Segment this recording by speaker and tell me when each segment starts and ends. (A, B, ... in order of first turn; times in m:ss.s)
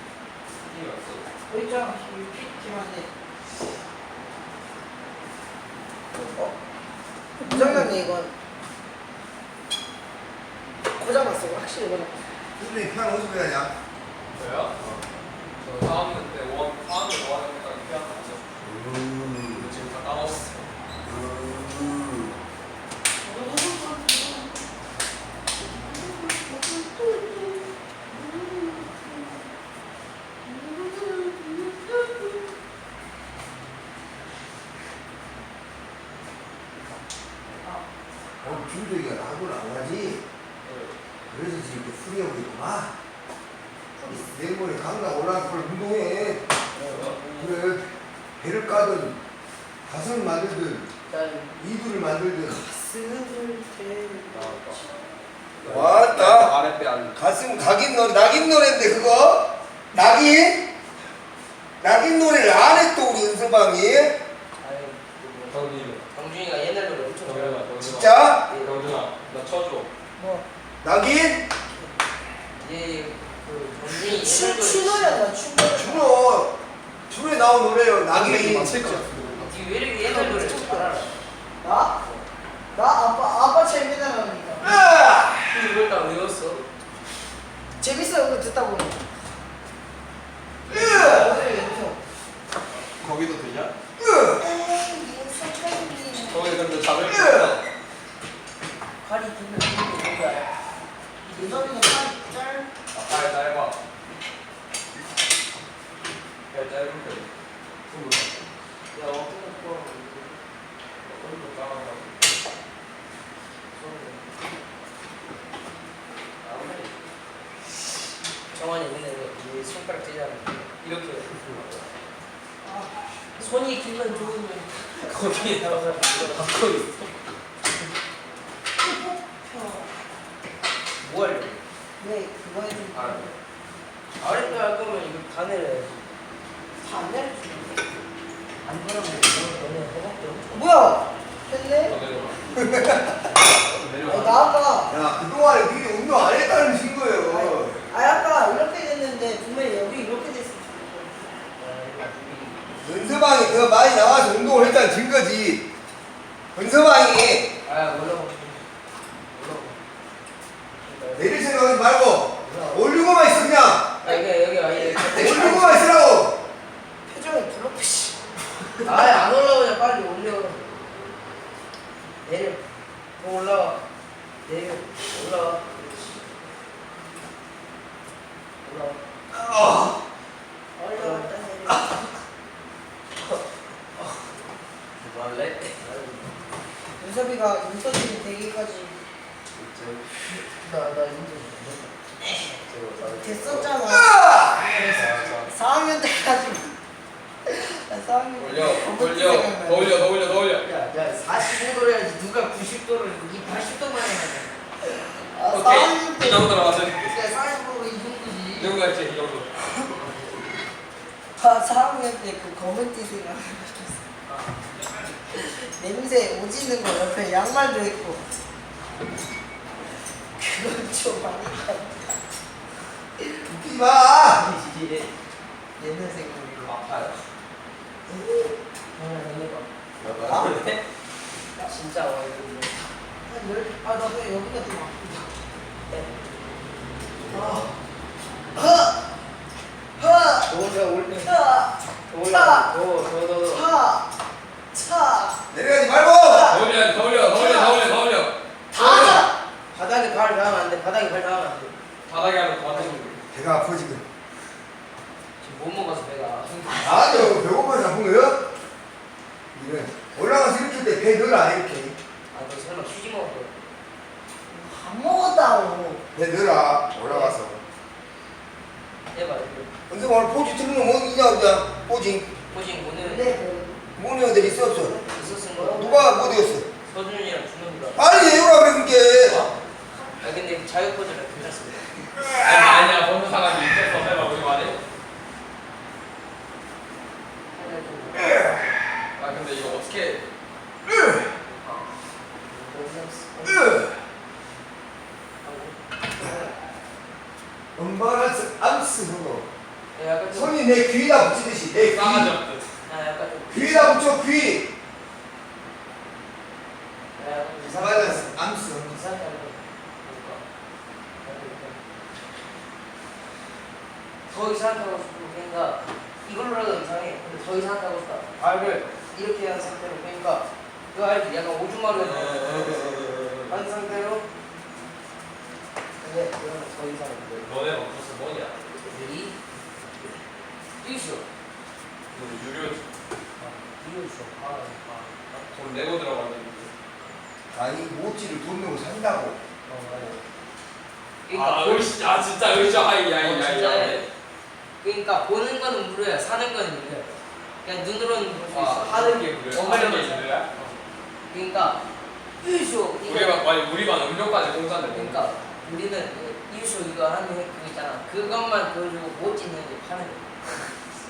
0:00.7-0:01.3 A
0:01.5-0:03.1 B
0:06.1-0:06.6 B
0:07.4-0:08.3 B
0:11.0-0:12.2 B
0:12.6-0:13.8 C
0:14.4-0:14.8 A
0:14.8-0:15.1 C
0:15.6-0:18.5 A
0:18.6-0:19.7 C
0:19.5-0:20.7 A
0:21.0-0:22.3 C
0:23.2-0:24.5 B
0:25.8-0:29.5 B
0:30.4-0:32.5 B
0:38.4-0:40.2 C
0:40.6-0:41.0 A
0:41.3-0:42.9 C
0:44.1-0:46.5 C
0:46.7-0:47.6 D
0:46.8-0:47.2 A
0:47.4-0:49.2 C
0:49.9-0:50.9 C
0:51.1-0:51.6 D
0:51.6-0:52.6 C
0:52.5-0:55.2 B
0:54.3-0:54.8 A
0:55.6-0:57.2 A
0:55.6-0:56.6 C
0:57.2-1:00.6 C
1:01.8-1:04.2 C
1:04.6-1:07.6 D
1:05.5-1:06.0 A
1:07.2-1:09.9 A
1:07.8-1:08.4 C
1:08.5-1:08.9 D
1:10.2-1:10.4 B
1:10.8-1:11.4 C
1:12.6-1:15.2 D
1:13.9-1:16.0 B
1:15.7-1:16.6 C
1:17.1-1:19.1 C
1:18.1-1:19.5 A
1:19.4-1:21.1 D
1:20.0-1:21.1 B
1:21.6-1:22.0 B
1:22.7-1:24.7 B
1:24.6-1:25.5 C
1:25.5-1:26.6 D
1:27.8-1:29.0 B
1:30.7-1:31.4 C
1:30.8-1:32.0 B
1:32.8-1:33.7 A
1:34.0-1:34.4 C
1:34.4-1:36.6 B
1:36.3-1:37.6 A
1:39.0-1:40.5 D
1:41.2-1:42.0 D
1:41.2-1:42.7 B
1:42.9-1:43.8 A
1:46.5-1:47.3 A
1:47.9-1:48.3 A
1:48.9-1:50.4 D
1:51.0-1:52.3 A
1:53.7-1:54.2 D
1:56.4-1:56.9 D
1:58.5-2:01.4 D
2:01.4-2:01.7 A
2:02.6-2:03.0 B
2:03.4-2:06.5 D
2:05.1-2:07.2 A
2:08.8-2:10.0 B
2:11.0-2:11.6 D
2:12.0-2:13.4 B
2:12.9-2:13.2 A
2:14.2-2:16.1 D
2:16.8-2:17.8 B
2:18.6-2:20.5 D
2:20.5-2:21.9 B
2:21.9-2:22.4 A
2:22.6-2:23.1 C
2:23.6-2:24.5 A
2:24.0-2:24.9 B
2:24.9-2:27.9 C
2:27.3-2:31.4 B
2:31.6-2:32.6 D
2:32.8-2:35.6 C
2:36.6-2:37.5 C
2:37.6-2:38.6 D
2:39.3-2:39.8 D
2:40.8-2:41.4 D
2:41.2-2:44.0 C
2:42.4-2:42.8 D
2:44.0-2:45.8 D
2:45.1-2:46.4 C
2:47.1-2:48.2 B
2:48.8-2:50.6 D
2:52.2-2:52.6 D
2:53.2-2:53.8 D
2:54.4-2:56.3 D
2:58.6-2:59.0 D
3:00.8-3:02.0 B
3:01.0-3:01.8 D
3:05.0-3:06.3 D
3:07.0-3:09.0 B
3:09.6-3:10.0 A
3:10.3-3:11.9 D
3:12.7-3:13.7 A
3:13.0-3:14.2 B
3:13.9-3:14.5 C
3:14.6-3:15.3 D
3:14.9-3:15.5 A
3:15.5-3:16.7 B
3:17.5-3:20.1 B
3:18.4-3:20.7 A
3:20.6-3:24.6 D
3:24.8-3:28.7 B
3:25.5-3:27.2 A
3:28.6-3:29.5 A
3:31.4-3:34.0 B
3:34.3-3:34.6 D
3:35.3-3:38.2 B
3:40.4-3:42.2 B
3:43.5-3:44.5 C
3:44.4-3:45.1 D
3:45.8-3:46.7 B
3:46.6-3:47.2 A
3:49.0-3:49.7 D
3:50.0-3:50.6 A
3:50.3-3:50.8 D
3:51.6-3:52.8 D
3:53.3-3:55.3 B
3:57.2-3:57.7 C
3:57.3-3:57.7 B
3:58.5-3:59.0 B
4:00.0-4:00.5 B
4:00.5-4:01.4 D
4:01.2-4:02.7 B
4:02.1-4:03.7 D
4:03.5-4:04.1 B
4:04.7-4:05.4 B
4:05.5-4:06.6 C
4:06.2-4:07.8 B
4:06.5-4:09.1 A
4:08.7-4:09.4 B
4:09.7-4:11.8 D
4:12.1-4:13.2 A
4:12.7-4:13.2 D
4:13.3-4:14.0 C
4:15.4-4:17.4 D
4:16.8-4:18.4 C
4:19.5-4:22.0 C
4:22.3-4:23.5 D
4:24.5-4:26.0 B
4:26.1-4:27.6 C
4:27.1-4:27.4 D
4:29.1-4:29.7 D
4:29.9-4:32.3 C
4:32.5-4:33.3 D
4:33.0-4:33.8 B
4:34.0-4:35.0 C
4:34.9-4:36.0 B
4:35.1-4:38.1 D
4:35.7-4:36.7 C
4:38.0-4:39.4 C
4:39.2-4:39.5 D
4:40.2-4:42.1 D
4:42.3-4:44.8 A
4:47.5-4:48.4 D
4:48.2-4:48.6 C
4:49.2-4:50.2 A
4:50.9-4:51.3 C
4:52.4-4:53.6 D
4:53.4-4:54.0 C
4:55.4-4:56.6 D
4:57.8-4:59.5 C
5:00.0-5:00.5 D
5:00.3-5:02.3 C
5:01.8-5:02.7 A
5:02.9-5:04.1 D
5:03.5-5:04.7 C
5:07.2-5:10.4 D
5:07.6-5:08.9 C
5:10.0-5:10.4 A
5:11.2-5:11.8 D
5:14.3-5:24.3 D
5:21.9-5:23.6 A
5:26.0-5:27.5 D
5:27.3-5:28.8 A
5:28.9-5:29.4 D
5:30.8-5:31.3 D
5:32.1-5:32.9 A
5:33.4-5:35.1 D
5:34.9-5:36.7 A
5:37.5-5:39.4 C
5:39.7-5:40.2 D
5:41.3-5:41.9 D
5:41.3-5:44.1 A
5:43.1-5:44.1 D
5:44.8-5:50.4 D
5:48.5-5:50.8 A
5:51.3-5:51.8 D
5:52.4-5:53.4 D
5:53.0-5:55.4 A
5:54.9-6:00.3 D